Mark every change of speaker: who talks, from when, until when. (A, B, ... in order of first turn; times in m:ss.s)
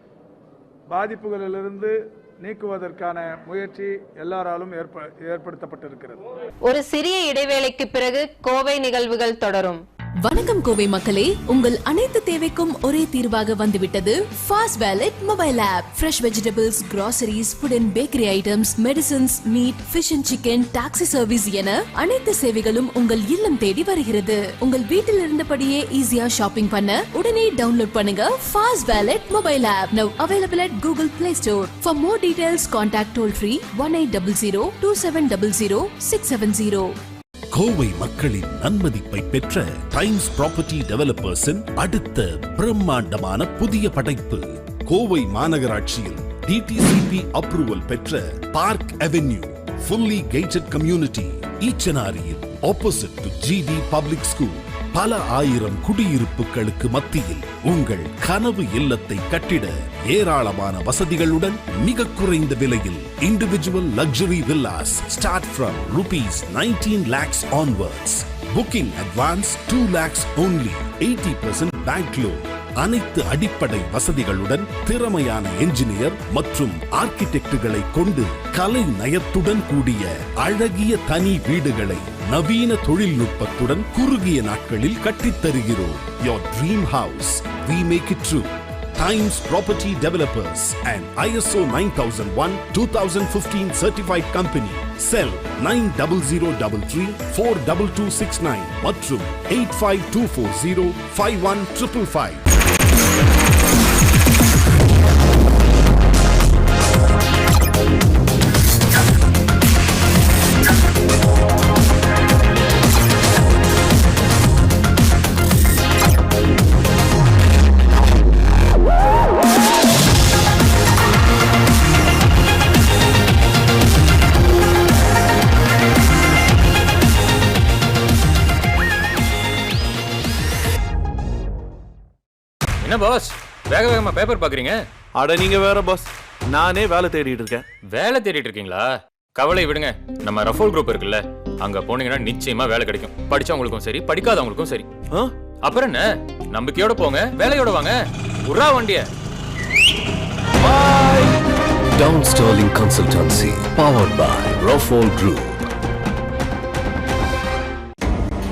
0:00.9-0:06.2 A
0:06.6-0:09.8 B
0:10.2-0:36.9 C
0:37.5-1:42.4 D
2:12.8-2:14.8 E
2:15.2-2:17.6 F
2:17.9-2:24.9 E
2:25.6-2:29.0 E
2:30.6-2:31.3 F
2:31.9-2:35.6 G